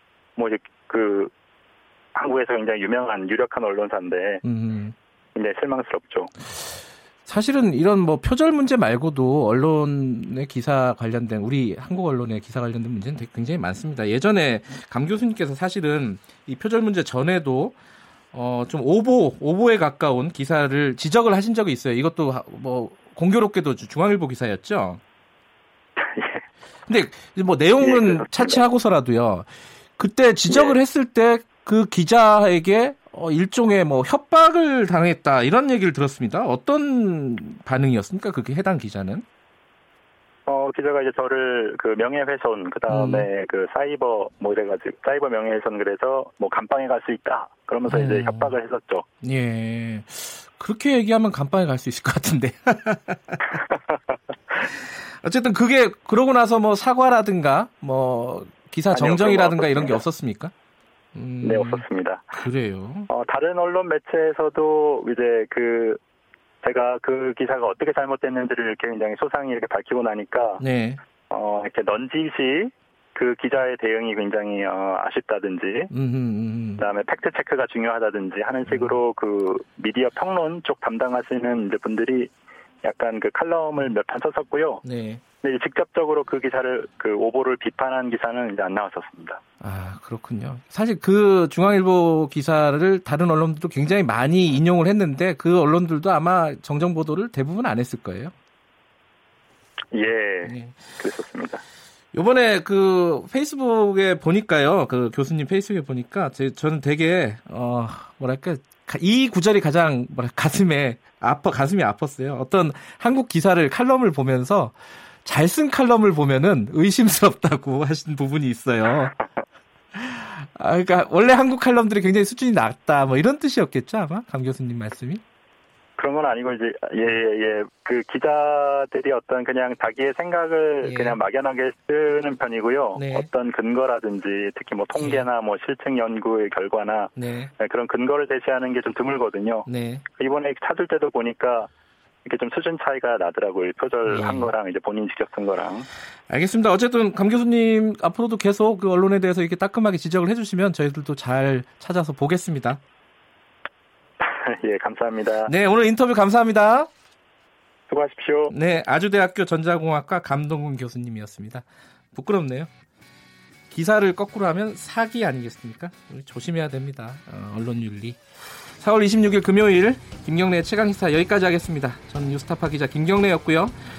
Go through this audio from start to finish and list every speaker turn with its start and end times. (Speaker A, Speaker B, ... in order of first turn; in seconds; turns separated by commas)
Speaker A: 0.3-1.3, Speaker A: 2.1-4.4, Speaker B: 4.4-4.9, Speaker A: 5.3-6.3, Speaker B: 7.2-17.8, Speaker B: 18.3-25.0, Speaker A: 26.0-26.4, Speaker B: 26.9-39.2, Speaker A: 27.8-28.6, Speaker A: 30.5-30.8, Speaker A: 40.5-49.0, Speaker B: 42.9-43.3, Speaker B: 47.9-48.5, Speaker B: 49.2-53.6, Speaker A: 53.5-54.0, Speaker B: 55.2-60.5, Speaker A: 58.9-60.0, Speaker B: 61.1-61.8, Speaker A: 61.4-62.4, Speaker B: 62.3-63.1, Speaker A: 63.1-66.0, Speaker A: 66.6-70.6, Speaker B: 70.6-71.0, Speaker A: 71.3-75.9, Speaker B: 75.9-76.8, Speaker A: 76.8-82.3, Speaker B: 78.7-79.0, Speaker A: 82.8-84.8, Speaker B: 84.8-85.2, Speaker A: 85.4-89.4, Speaker B: 89.6-98.3, Speaker A: 99.9-101.6, Speaker B: 100.4-100.8, Speaker B: 102.1-119.1, Speaker B: 119.9-125.2, Speaker A: 126.0-141.7, Speaker B: 130.8-131.2, Speaker B: 132.9-133.3, Speaker B: 134.9-135.3, Speaker B: 137.2-137.5, Speaker B: 139.7-140.0, Speaker A: 142.2-145.9, Speaker B: 144.1-144.5, Speaker B: 146.3-152.8, Speaker A: 154.2-155.5, Speaker B: 155.4-156.9, Speaker A: 157.9-158.5, Speaker B: 158.5-162.7, Speaker B: 163.7-168.2, Speaker B: 168.8-173.8